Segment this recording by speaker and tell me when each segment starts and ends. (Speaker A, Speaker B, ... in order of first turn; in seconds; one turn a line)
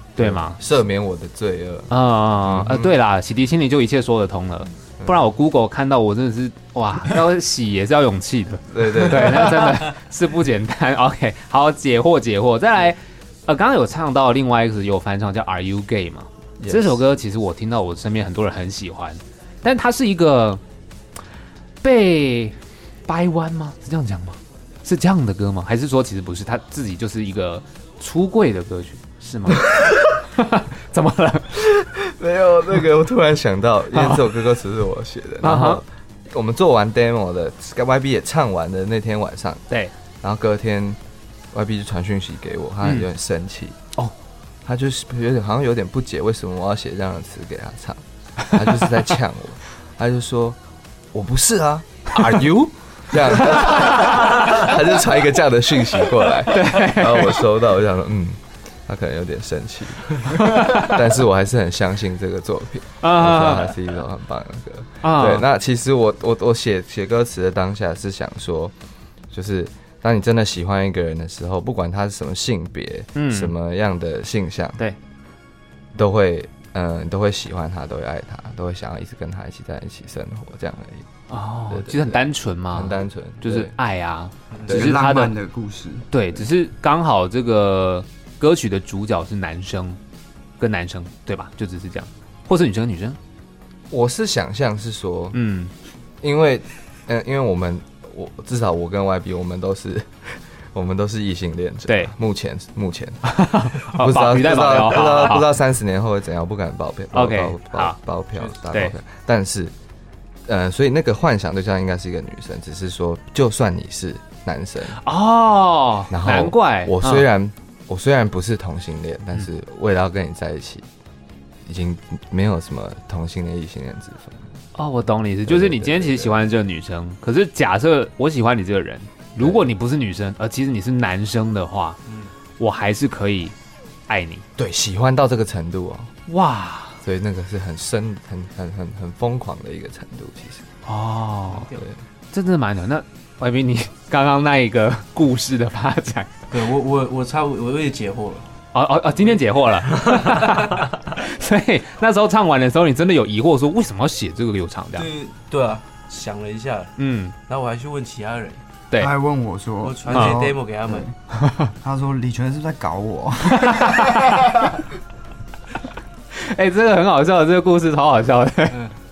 Speaker A: 0.2-0.6
Speaker B: 0.2-3.0
Speaker A: 1.9-20.6
Speaker B: 5.0-5.3
Speaker B: 8.7-9.9
Speaker B: 16.6-17.0
Speaker A: 21.8-22.6
Speaker A: 23.1-31.5
Speaker B: 31.6-39.7
Speaker A: 35.4-35.8
Speaker B: 40.2-41.0
Speaker B: 41.5-43.8
Speaker B: 44.6-50.6
Speaker B: 51.1-68.7
Speaker A: 56.5-57.4
Speaker A: 60.4-60.9
Speaker A: 63.0-63.8
Speaker A: 65.0-65.5
Speaker B: 69.3-74.8
Speaker A: 73.2-73.5
Speaker B: 76.0-81.1
Speaker A: 81.3-85.3
Speaker B: 81.7-83.7
Speaker B: 84.7-85.0
Speaker C: 84.7-86.1
Speaker A: 86.1-90.0
Speaker A: 90.6-93.2
Speaker B: 93.9-95.4
Speaker A: 95.3-95.7
Speaker B: 96.2-109.7
Speaker A: 101.9-102.1
Speaker A: 103.2-105.5
Speaker A: 107.1-108.0
Speaker A: 108.7-108.9
Speaker B: 110.5-115.0
Speaker A: 115.0-117.3
Speaker B: 116.1-120.9
Speaker B: 121.7-124.6
Speaker A: 124.8-132.0
Speaker B: 125.5-126.4
Speaker B: 129.4-129.6
Speaker D: 132.1-132.3
Speaker A: 132.6-133.6
Speaker A: 134.1-134.4
Speaker B: 134.6-136.1
Speaker A: 136.3-137.0
Speaker B: 137.0-140.7
Speaker A: 140.8-141.7
Speaker D: 141.5-141.9
Speaker A: 142.3-146.3
Speaker D: 146.5-148.5
Speaker A: 148.7-155.1
Speaker D: 149.2-150.9
Speaker D: 155.0-156.9
Speaker A: 157.0-157.3
Speaker D: 157.5-158.6
Speaker C: 159.0-161.1
Speaker D: 159.8-161.1
Speaker A: 161.4-161.7
Speaker C: 161.8-164.3
Speaker A: 163.6-164.5
Speaker A: 166.3-168.8